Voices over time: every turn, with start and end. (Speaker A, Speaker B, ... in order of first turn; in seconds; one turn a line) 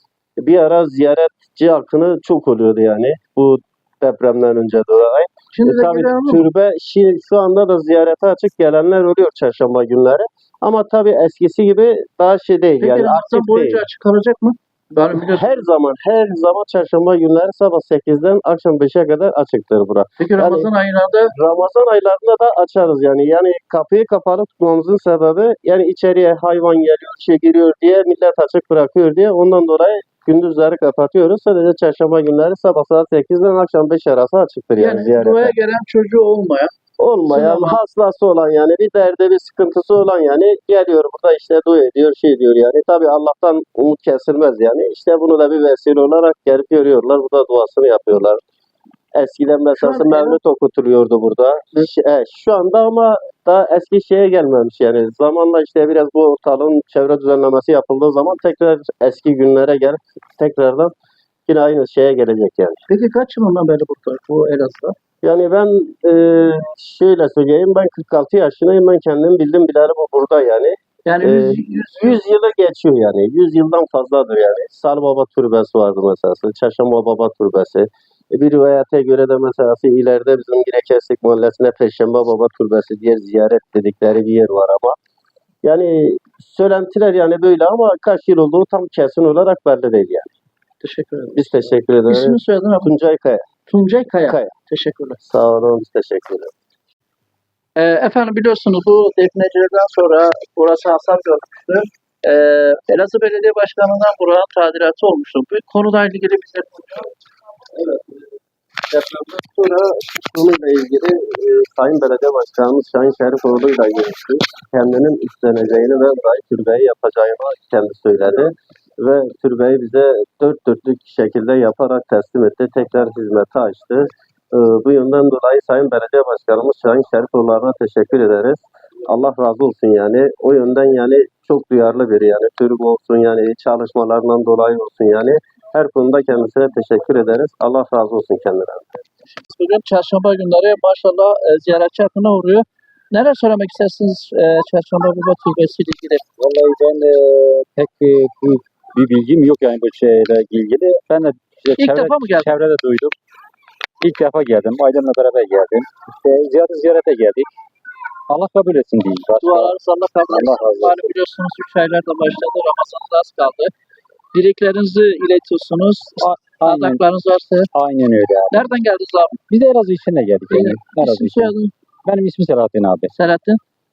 Speaker A: 0.4-13.8
Speaker B: 5.5-6.5
Speaker B: 12.8-15.6
Speaker A: 15.1-20.7
Speaker B: 20.2-21.3
Speaker A: 21.3-35.5
Speaker B: 34.8-36.7
Speaker A: 37.0-48.4
Speaker B: 37.3-37.8
Speaker A: 49.1-60.9
Speaker B: 49.8-50.4
Speaker A: 61.5-62.8
Speaker B: 62.9-65.0
Speaker A: 65.2-85.0
Speaker B: 71.0-72.2
Speaker A: 85.6-90.3
Speaker B: 90.8-91.4
Speaker A: 91.3-93.5
Speaker B: 92.1-92.9
Speaker B: 93.7-95.2
Speaker A: 94.3-94.5
Speaker A: 95.2-96.5
Speaker B: 97.8-107.1
Speaker A: 107.7-108.3
Speaker A: 108.9-138.9
Speaker B: 139.3-146.2
Speaker C: 146.4-153.2
Speaker B: 151.8-152.5
Speaker C: 154.0-157.5
Speaker C: 158.3-159.7
Speaker B: 159.4-163.7
Speaker C: 160.3-161.0
Speaker B: 164.3-167.7
Speaker C: 166.2-167.0
Speaker C: 167.7-168.6
Speaker B: 168.5-169.4
Speaker C: 169.5-171.5
Speaker B: 170.5-171.7
Speaker C: 172.1-173.1
Speaker B: 173.2-173.6